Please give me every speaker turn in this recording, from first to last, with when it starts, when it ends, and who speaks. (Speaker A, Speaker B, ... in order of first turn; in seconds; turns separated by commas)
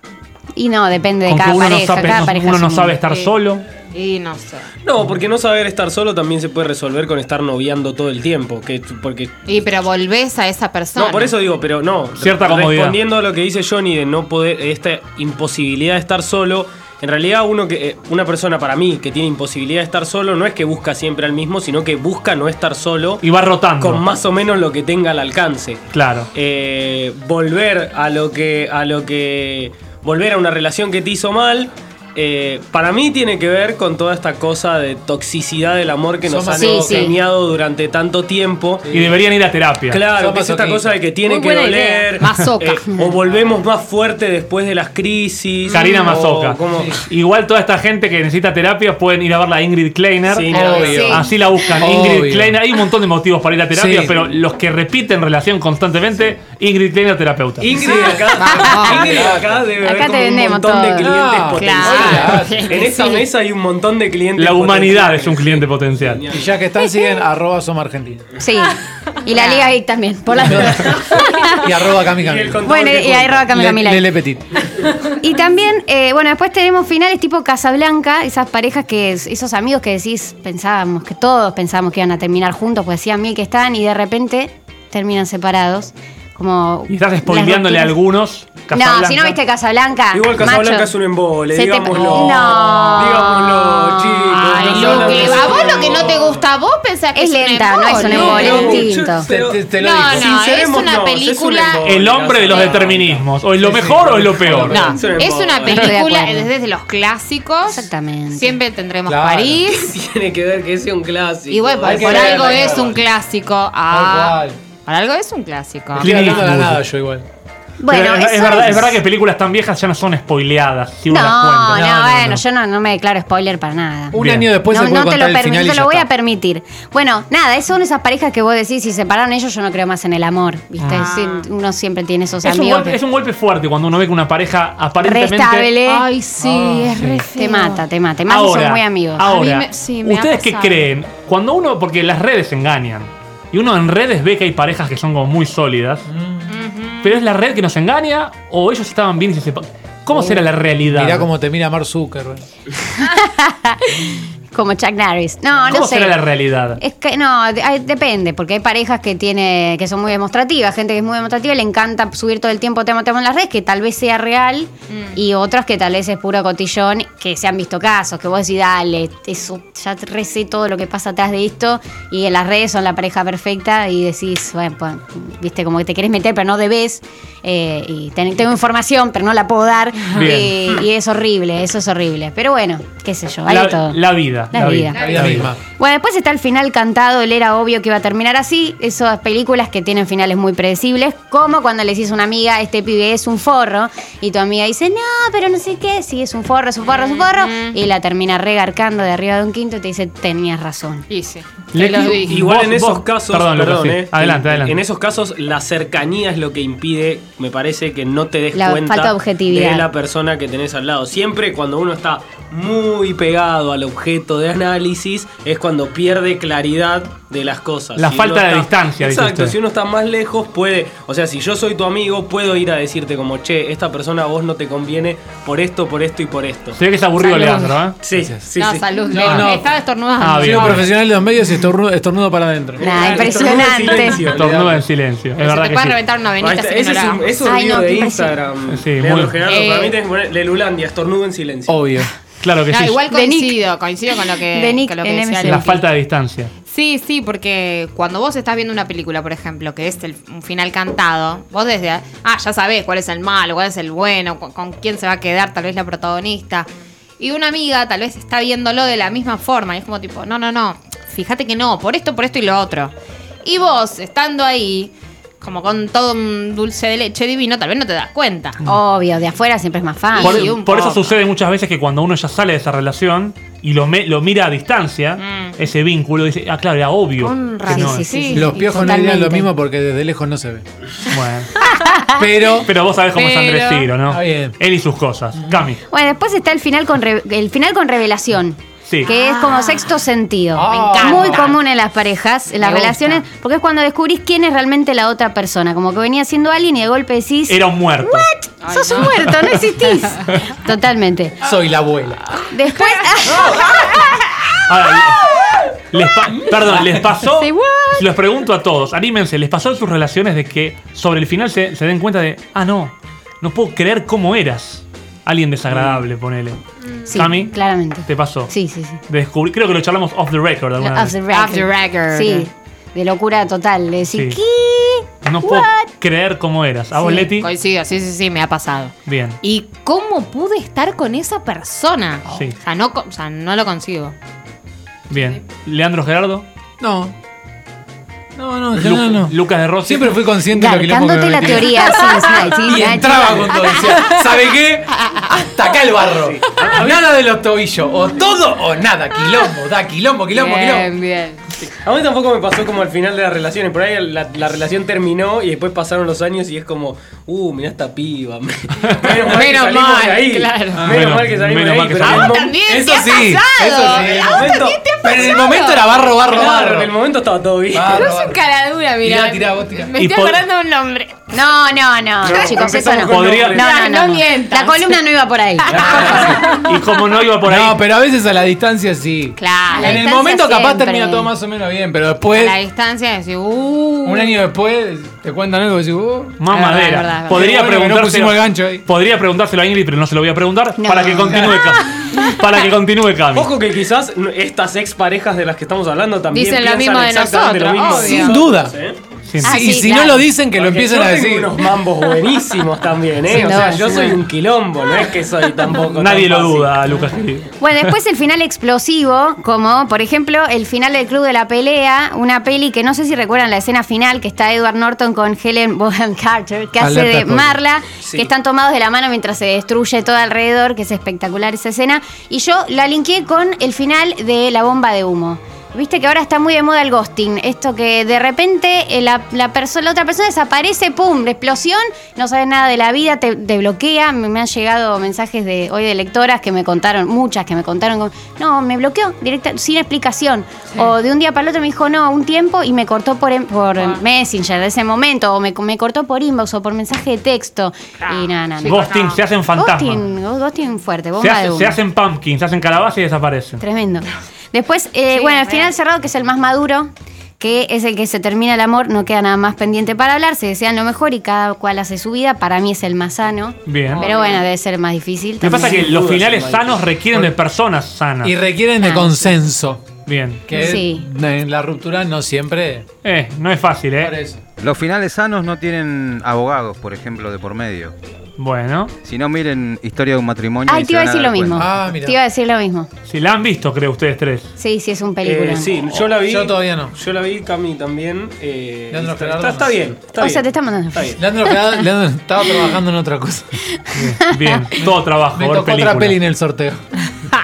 Speaker A: 0.6-3.0, Speaker B: 1.3-3.6, Speaker C: 3.9-4.7, Speaker D: 4.8-9.4, Speaker C: 9.4-11.3, Speaker D: 10.9-23.2, Speaker B: 12.2-13.0, Speaker B: 23.2-24.0, Speaker D: 23.8-38.9, Speaker B: 25.9-26.3, Speaker E: 36.2-37.1, Speaker A: 36.6-37.1, Speaker C: 36.6-37.1, Speaker E: 38.8-39.2, Speaker B: 38.9-40.0, Speaker D: 39.9-47.0, Speaker E: 40.1-41.0, Speaker C: 41.2-43.1, Speaker C: 45.7-46.1, Speaker B: 45.7-57.7, Speaker E: 46.7-47.0, Speaker D: 50.3-51.2, Speaker E: 50.5-51.2, Speaker C: 50.7-51.3, Speaker E: 51.8-52.6, Speaker E: 53.7-54.1, Speaker D: 57.6-66.6, Speaker E: 57.7-59.6, Speaker C: 58.3-59.2, Speaker A: 59.8-61.1, Speaker E: 61.0-62.8, Speaker C: 61.5-63.3, Speaker B: 64.3-66.2, Speaker E: 66.3-68.3, Speaker A: 68.4-71.7, Speaker C: 69.3-69.7, Speaker E: 70.4-72.6, Speaker D: 72.1-73.5, Speaker A: 72.6-74.1, Speaker E: 73.5-74.5, Speaker A: 75.2-88.0, Speaker B: 86.9-89.4, Speaker A: 88.7-90.9, Speaker D: 90.1-96.4, Speaker A: 91.5-93.5, Speaker C: 93.5-98.9, Speaker E: 94.5-96.2, Speaker A: 97.1-99.3, Speaker D: 98.0-103.3, Speaker E: 99.0-100.3, Speaker C: 99.8-101.9, Speaker B: 101.8-104.8, Speaker E: 103.6-105.0, Speaker D: 104.6-105.9, Speaker C: 104.7-109.9, Speaker A: 105.7-106.5, Speaker A: 107.7-108.6, Speaker E: 109.1-109.6, Speaker D: 109.7-113.0, Speaker C: 111.5-116.4, Speaker E: 111.8-113.0, Speaker E: 113.9-114.6, Speaker E: 115.9-117.2, Speaker B: 116.0-116.8, Speaker A: 117.8-119.0, Speaker B: 117.9-122.4, Speaker A: 121.1-133.0, Speaker E: 121.7-122.3, Speaker E: 124.1-126.1, Speaker B: 124.1-124.5, Speaker B: 130.8-131.1, Speaker C: 130.9-131.5, Speaker B: 132.4-135.7, Speaker A: 135.0-136.1, Speaker C: 135.8-137.8, Speaker E: 136.4-137.2, Speaker A: 137.3-139.2, Speaker B: 138.3-146.1, Speaker C: 139.2-140.9, Speaker E: 146.1-146.5, Speaker C: 146.5-147.2, Speaker B: 147.0-151.3, Speaker E: 150.9-152.4, Speaker A: 152.9-156.2, Speaker B: 155.7-156.8, Speaker A: 156.8-184.0, Speaker C: 164.9-165.2, Speaker B: 180.1-180.6, Speaker B: 183.5-185.5, Speaker A: 184.5-201.1, Speaker E: 184.9-185.6, Speaker C: 196.8-197.8, Speaker C: 201.1-202.4, Speaker B: 201.7-204.8, Speaker D: 202.2-226.8, Speaker A: 208.5-209.9, Speaker B: 218.0-219.6, Speaker B: 226.8-228.0, Speaker A: 227.2-227.8, Speaker D: 228.0-229.4, Speaker E: 228.1-228.4, Speaker C: 228.6-230.9, Speaker E: 229.1-229.7, Speaker B: 230.2-230.9, Speaker E: 230.4-232.8, Speaker D: 232.8-234.6, Speaker A: 232.8-234.2, Speaker C: 233.0-234.0, Speaker E: 234.2-234.8, Speaker B: 234.2-236.0, Speaker C: 235.4-237.4, Speaker D: 236.4-241.7, Speaker A: 237.4-238.4, Speaker B: 238.7-239.4, Speaker C: 239.4-240.0, Speaker E: 241.7-242.1, Speaker B: 242.4-243.0, Speaker C: 242.7-245.8, Speaker A: 243.1-243.6, Speaker A: 244.5-245.8, Speaker B: 245.4-246.5, Speaker C: 246.7-256.7, Speaker C: 257.2-262.9, Speaker C: 263.4-268.6, Speaker A: 268.6-270.5, Speaker C: 270.1-271.2, Speaker B: 270.2-278.1, Speaker C: 275.2-275.5, Speaker C: 277.2-278.6, Speaker A: 277.6-279.5, Speaker E: 278.3-280.6, Speaker B: 281.1-281.5, Speaker A: 281.6-282.2, Speaker E: 282.1-282.7, Speaker B: 282.6-285.8, Speaker C: 283.1-283.9, Speaker E: 284.1-284.6, Speaker E: 285.4-285.7, Speaker A: 285.9-301.4, Speaker C: 289.0-289.9, Speaker E: 290.5-291.5, Speaker C: 290.9-291.6, Speaker C: 292.6-293.2, Speaker B: 297.5-298.3, Speaker C: 298.6-300.3, Speaker E: 301.4-302.2, Speaker A: 302.4-305.6, Speaker C: 302.7-304.0, Speaker B: 304.6-316.6, Speaker E: 306.5-307.2, Speaker C: 307.4-308.0, Speaker A: 317.1-319.0, Speaker B: 317.1-317.5, Speaker B: 318.1-318.5, Speaker B: 319.1-321.2, Speaker A: 320.8-325.9, Speaker C: 321.3-322.5, Speaker B: 324.1-324.4, Speaker B: 325.2-327.5, Speaker A: 326.9-327.3, Speaker C: 327.3-334.1, Speaker B: 329.1-329.4, Speaker B: 332.3-332.6, Speaker B: 335.1-336.4, Speaker E: 336.8-337.1, Speaker E: 338.4-350.9, Speaker B: 338.8-340.2, Speaker A: 340.5-343.8, Speaker C: 341.9-342.4, Speaker C: 343.6-344.3, Speaker C: 345.1-345.4, Speaker D: 346.1-347.0, Speaker C: 350.3-351.4, Speaker D: 351.6-362.6, Speaker C: 359.2-360.9, Speaker E: 360.7-361.2, Speaker B: 360.9-362.4, Speaker C: 362.0-366.0, Speaker E: 362.6-366.9, Speaker D: 363.8-365.4, Speaker D: 366.2-368.0, Speaker E: 367.7-368.4, Speaker C: 367.9-371.3, Speaker E: 369.0-369.9, Speaker B: 369.9-370.4, Speaker A: 371.3-375.9, Speaker D: 372.2-373.7, Speaker B: 372.9-373.6, Speaker C: 373.5-375.0, Speaker C: 375.7-376.8, Speaker D: 375.7-376.4, Speaker E: 375.7-376.6, Speaker B: 376.3-377.8, Speaker E: 377.4-382.6, Speaker C: 379.4-380.1, Speaker A: 379.7-381.3, Speaker C: 382.3-384.4, Speaker E: 384.0-386.4, Speaker B: 386.4-393.5, Speaker C: 386.5-387.7, Speaker E: 387.3-388.9, Speaker A: 390.8-392.2, Speaker E: 391.3-391.6, Speaker D: 393.3-399.0, Speaker C: 396.3-398.4, Speaker E: 398.0-398.8, Speaker B: 399.3-399.6, Speaker E: 399.4-401.7, Speaker A: 399.4-400.3, Speaker D: 400.6-406.9, Speaker A: 403.3-404.1, Speaker C: 403.4-404.2, Speaker B: 405.9-407.9, Speaker A: 407.6-448.9, Speaker E: 416.8-417.6, Speaker D: 418.0-418.3, Speaker C: 448.0-449.2, Speaker B: 448.6-450.0, Speaker A: 449.6-451.8, Speaker B: 451.2-453.6, Speaker A: 453.6-465.9, Speaker C: 455.1-455.7, Speaker B: 463.6-464.1, Speaker C: 463.9-464.5, Speaker B: 465.4-468.4, Speaker D: 465.5-466.8, Speaker E: 468.2-469.9, Speaker A: 468.8-469.3, Speaker B: 470.1-470.6, Speaker E: 470.4-472.9, Speaker A: 470.5-471.1, Speaker B: 473.0-474.1, Speaker E: 474.0-474.4, Speaker F: 474.6-477.9, Speaker B: 478.4-478.9, Speaker F: 479.0-481.7, Speaker A: 480.6-482.9, Speaker E: 481.5-482.2, Speaker B: 483.1-484.5, Speaker A: 484.6-485.8, Speaker D: 485.2-491.2, Speaker E: 486.2-486.9, Speaker E: 488.9-489.9, Speaker A: 490.1-491.8, Speaker E: 491.1-493.6, Speaker A: 493.8-494.6, Speaker B: 493.9-496.2, Speaker E: 494.8-497.0